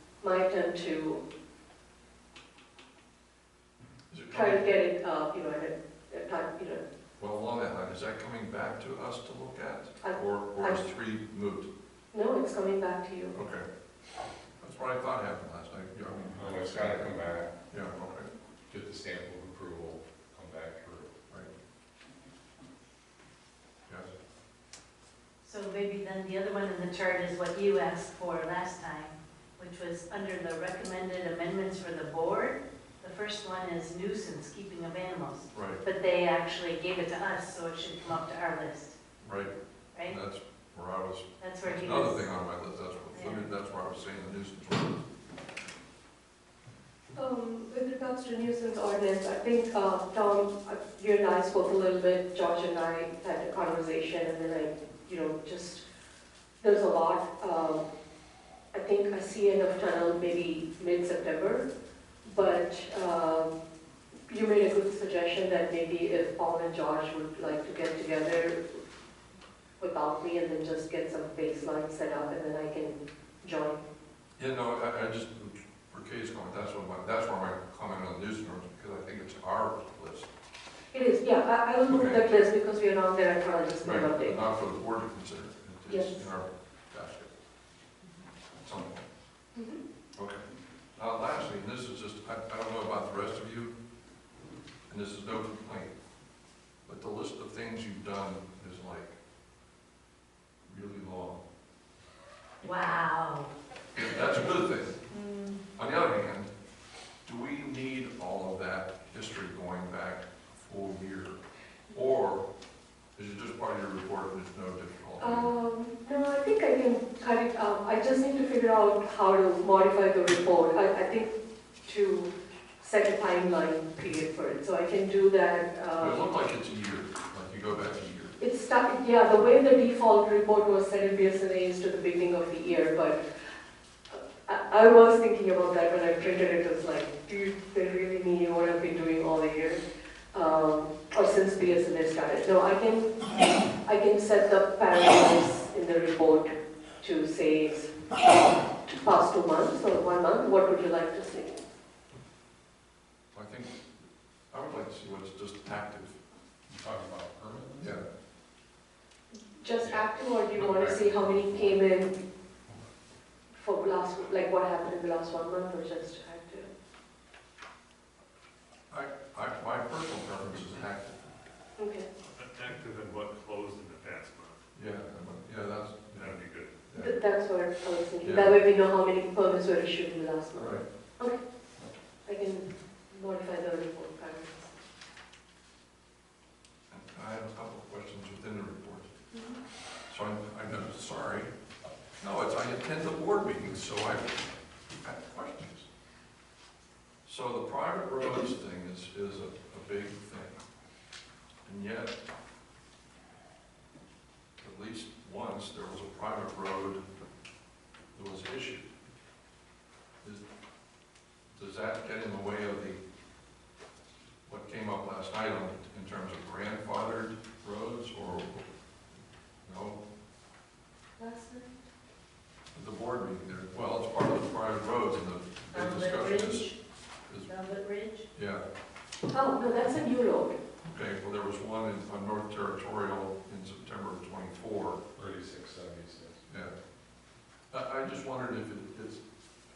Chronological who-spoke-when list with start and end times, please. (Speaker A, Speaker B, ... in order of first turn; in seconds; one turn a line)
Speaker A: 0.2-1.2
Speaker B: 4.1-4.7
Speaker A: 4.3-6.8
Speaker B: 7.2-11.7
Speaker A: 10.0-10.8
Speaker A: 12.1-13.3
Speaker B: 13.3-13.6
Speaker B: 14.6-17.1
Speaker C: 16.3-17.5
Speaker B: 17.7-18.3
Speaker C: 18.7-21.1
Speaker D: 25.4-39.0
Speaker B: 35.5-35.8
Speaker B: 39.2-39.5
Speaker D: 39.9-40.2
Speaker B: 40.0-45.0
Speaker D: 41.4-42.3
Speaker D: 43.1-43.5
Speaker A: 47.1-55.8
Speaker A: 56.6-57.9
Speaker A: 58.7-61.7
Speaker A: 62.2-63.5
Speaker A: 64.3-68.8
Speaker A: 69.8-73.8
Speaker B: 74.4-80.3
Speaker A: 80.9-84.4
Speaker B: 81.9-82.4
Speaker B: 83.8-87.3
Speaker A: 85.9-86.2
Speaker B: 88.6-89.0
Speaker B: 90.2-90.4
Speaker B: 91.0-93.7
Speaker B: 94.9-95.9
Speaker B: 96.8-99.2
Speaker B: 100.6-101.4
Speaker D: 102.6-103.5
Speaker B: 103.9-105.0
Speaker D: 105.1-105.6
Speaker B: 105.8-106.5
Speaker B: 107.2-111.4
Speaker B: 111.9-112.5
Speaker B: 113.2-115.5
Speaker A: 115.2-121.3
Speaker A: 121.8-122.3
Speaker A: 122.8-126.2
Speaker B: 126.0-128.3
Speaker A: 128.4-133.2
Speaker A: 134.1-139.8
Speaker A: 140.3-143.1
Speaker A: 143.8-148.0
Speaker A: 148.8-151.5
Speaker B: 153.3-153.9
Speaker B: 154.5-156.2
Speaker C: 156.7-158.0
Speaker B: 157.8-158.0
Speaker A: 159.3-162.2
Speaker C: 159.8-161.8
Speaker A: 163.5-166.7
Speaker B: 168.9-171.2
Speaker A: 171.8-172.1
Speaker E: 172.3-174.6
Speaker B: 174.7-176.3
Speaker E: 176.2-176.7
Speaker B: 176.9-177.2
Speaker A: 177.0-181.4
Speaker B: 178.2-178.6
Speaker B: 180.6-180.8
Speaker A: 182.2-184.7
Speaker B: 186.9-189.1
Speaker A: 189.3-189.6
Speaker B: 190.1-191.5
Speaker B: 192.2-194.4
Speaker B: 195.0-195.9
Speaker B: 197.2-200.6
Speaker B: 201.6-202.2
Speaker B: 204.6-207.0
Speaker B: 208.1-208.9
Speaker B: 211.5-213.0
Speaker B: 214.4-218.6
Speaker B: 219.6-220.0
Speaker A: 221.2-221.8
Speaker B: 222.7-226.7
Speaker D: 225.7-226.8
Speaker B: 227.3-227.5
Speaker D: 227.4-228.2
Speaker B: 228.3-228.6
Speaker A: 229.3-230.6
Speaker B: 230.8-235.0
Speaker C: 235.2-236.4
Speaker B: 236.5-236.7
Speaker B: 237.7-239.2